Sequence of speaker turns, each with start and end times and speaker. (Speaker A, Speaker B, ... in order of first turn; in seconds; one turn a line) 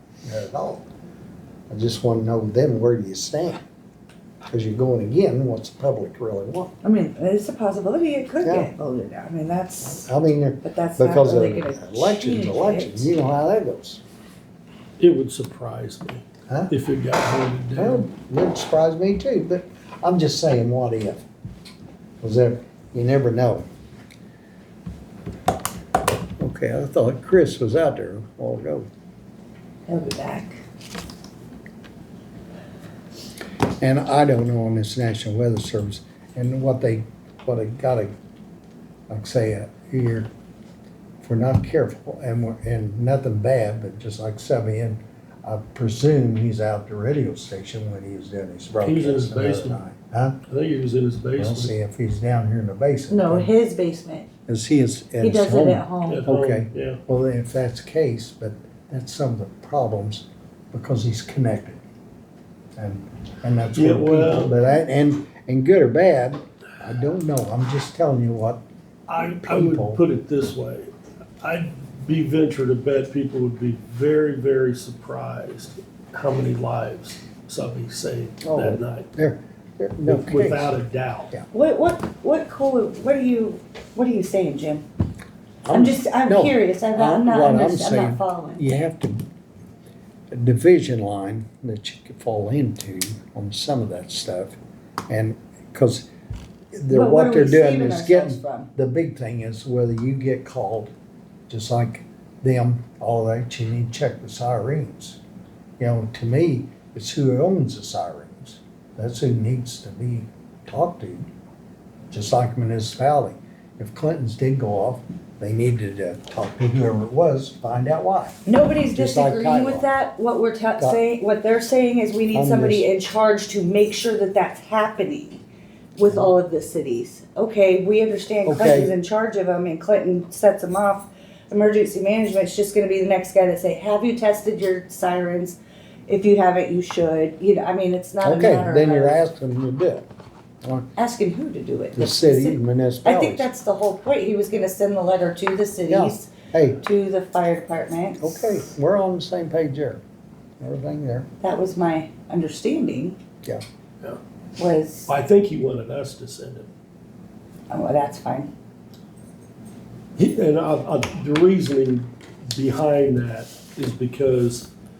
Speaker A: 0.2-0.8
Speaker A: 1.7-3.6
Speaker A: 4.5-6.7
Speaker B: 6.8-10.1
Speaker A: 8.4-8.7
Speaker A: 9.9-14.0
Speaker B: 10.6-13.1
Speaker C: 15.0-18.1
Speaker A: 17.8-21.2
Speaker A: 22.2-23.6
Speaker A: 26.4-28.9
Speaker B: 29.9-30.6
Speaker A: 33.8-38.1
Speaker A: 39.1-40.3
Speaker A: 41.2-50.4
Speaker C: 48.8-49.8
Speaker C: 50.5-51.7
Speaker A: 51.4-53.5
Speaker B: 53.1-54.3
Speaker A: 54.5-61.8
Speaker B: 55.2-56.3
Speaker C: 56.1-57.0
Speaker A: 62.8-68.6
Speaker C: 63.7-64.5
Speaker C: 69.1-70.8
Speaker A: 69.2-70.0
Speaker C: 71.4-79.1
Speaker A: 78.4-80.7
Speaker C: 80.0-81.3
Speaker B: 81.5-84.8
Speaker A: 85.6-89.3
Speaker B: 85.7-88.6
Speaker A: 90.3-94.6
Speaker A: 95.1-96.1
Speaker A: 96.7-100.9
Speaker B: 96.9-98.7
Speaker A: 101.5-105.2
Speaker A: 105.8-111.3
Speaker A: 112.1-118.4
Speaker B: 118.5-125.4
Speaker A: 118.9-119.9
Speaker A: 122.3-122.8
Speaker B: 126.0-139.2
Speaker A: 128.4-128.9
Speaker A: 138.2-140.1
Speaker A: 140.6-140.9
Speaker B: 140.9-146.3
Speaker A: 141.9-143.5
Speaker A: 145.9-146.8
Speaker B: 146.8-148.4
Speaker A: 148.2-150.0
Speaker A: 150.6-151.3
Speaker B: 151.4-153.2
Speaker B: 154.6-155.1
Speaker C: 155.1-156.7
Speaker B: 157.7-158.5
Speaker C: 160.2-164.7